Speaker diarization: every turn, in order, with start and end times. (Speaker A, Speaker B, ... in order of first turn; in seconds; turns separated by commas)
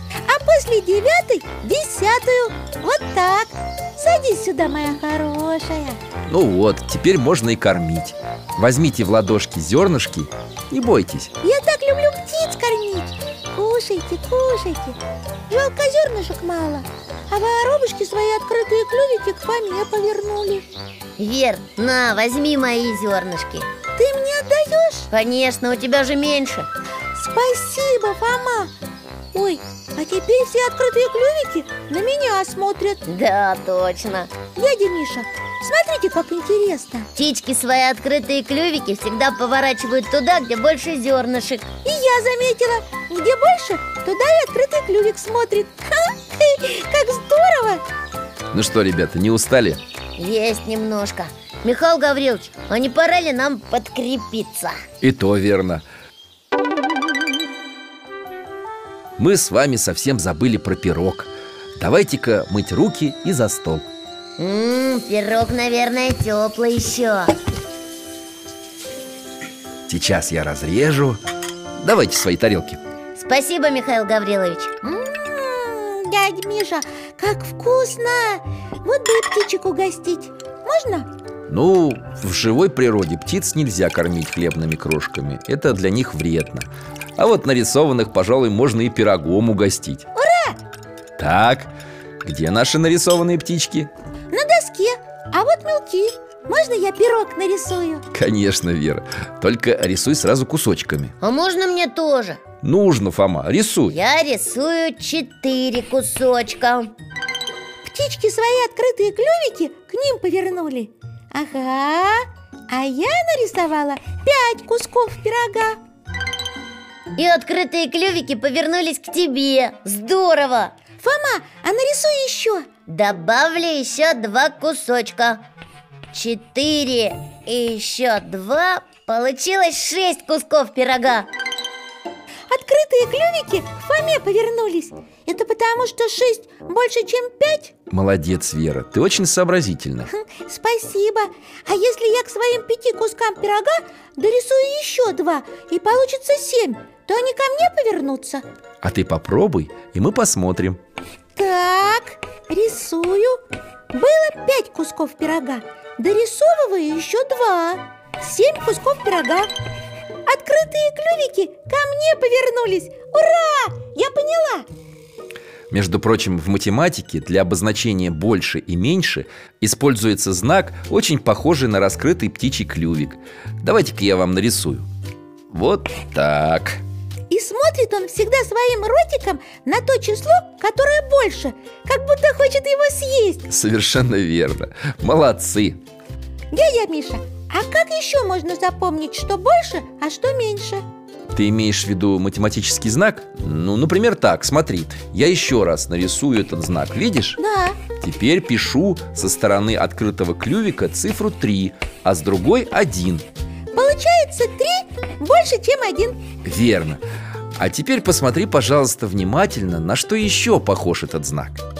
Speaker A: 0.2-6.0, Speaker B: 6.3-11.3, Speaker A: 11.4-15.0, Speaker A: 15.5-20.6, Speaker C: 21.2-23.7, Speaker A: 23.9-25.1, Speaker C: 25.1-26.7, Speaker A: 27.1-28.7, Speaker A: 29.3-33.0, Speaker C: 33.0-34.3, Speaker A: 34.5-37.1, Speaker C: 37.1-41.6, Speaker A: 41.8-47.8, Speaker B: 48.5-49.8, Speaker C: 50.2-54.8, Speaker B: 55.0-55.9, Speaker B: 59.2-63.9, Speaker C: 64.4-67.3, Speaker B: 69.9-71.2, Speaker B: 71.8-72.8, Speaker C: 73.1-74.7, Speaker A: 74.8-81.1, Speaker B: 81.5-90.0, Speaker A: 90.1-90.6, Speaker B: 91.2-91.7, Speaker B: 92.2-93.9, Speaker A: 94.3-98.0, Speaker B: 98.1-101.1, Speaker C: 101.2-102.4, Speaker B: 102.6-104.0, Speaker C: 103.9-106.9, Speaker A: 107.8-115.8, Speaker C: 117.2-120.7, Speaker A: 121.0-122.7, Speaker C: 122.9-125.4, Speaker C: 126.1-131.3, Speaker A: 132.5-137.7, Speaker B: 137.9-140.1, Speaker A: 140.1-148.4, Speaker B: 148.8-150.8, Speaker A: 151.3-153.4, Speaker A: 153.9-159.5, Speaker A: 160.3-164.7, Speaker B: 165.7-174.9, Speaker B: 175.5-176.8, Speaker A: 177.3-183.4, Speaker B: 183.5-185.8, Speaker A: 186.5-190.8, Speaker B: 191.3-197.4, Speaker A: 197.4-197.8, Speaker B: 198.0-203.2, Speaker A: 203.7-206.2, Speaker B: 206.4-207.0, Speaker B: 207.6-211.6